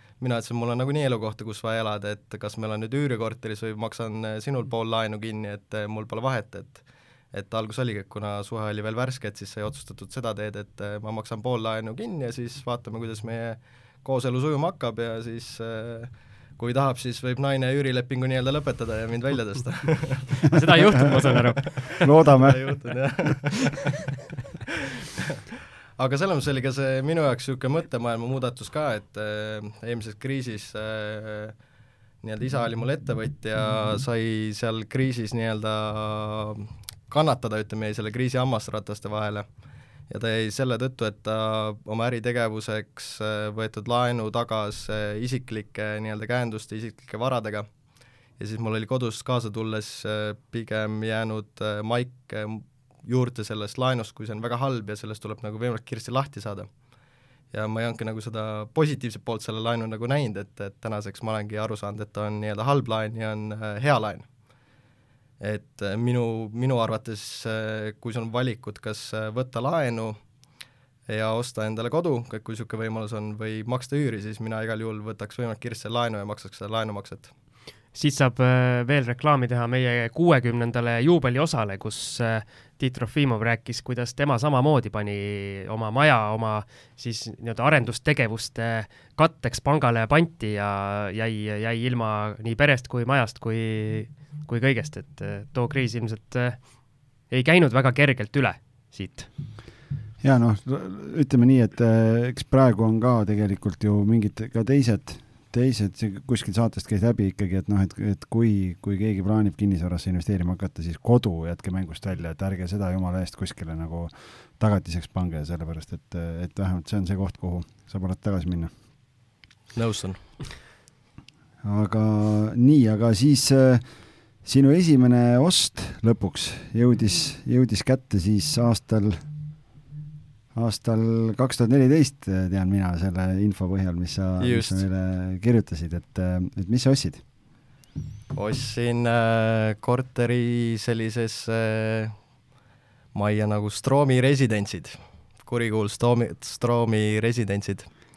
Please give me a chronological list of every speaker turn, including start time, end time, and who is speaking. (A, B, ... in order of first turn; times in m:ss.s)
0:00.2-0:24.0 A
0:20.4-0:22.0 B
0:20.5-0:21.0 C
0:22.0-0:22.6 C
0:26.0-0:31.5 A
0:32.2-0:39.4 A
0:40.1-0:47.6 A
0:48.4-0:56.7 A
0:57.5-1:04.3 A
1:05.4-1:10.2 A
1:11.1-1:17.3 A
1:17.9-1:36.6 B
1:37.3-1:39.3 B
1:40.2-1:58.7 C
1:59.7-2:00.2 A
2:01.6-2:03.8 C
2:04.4-2:09.2 C
2:10.5-2:17.2 C
2:14.4-2:14.8 A
2:18.3-2:22.1 A
2:23.1-2:27.9 A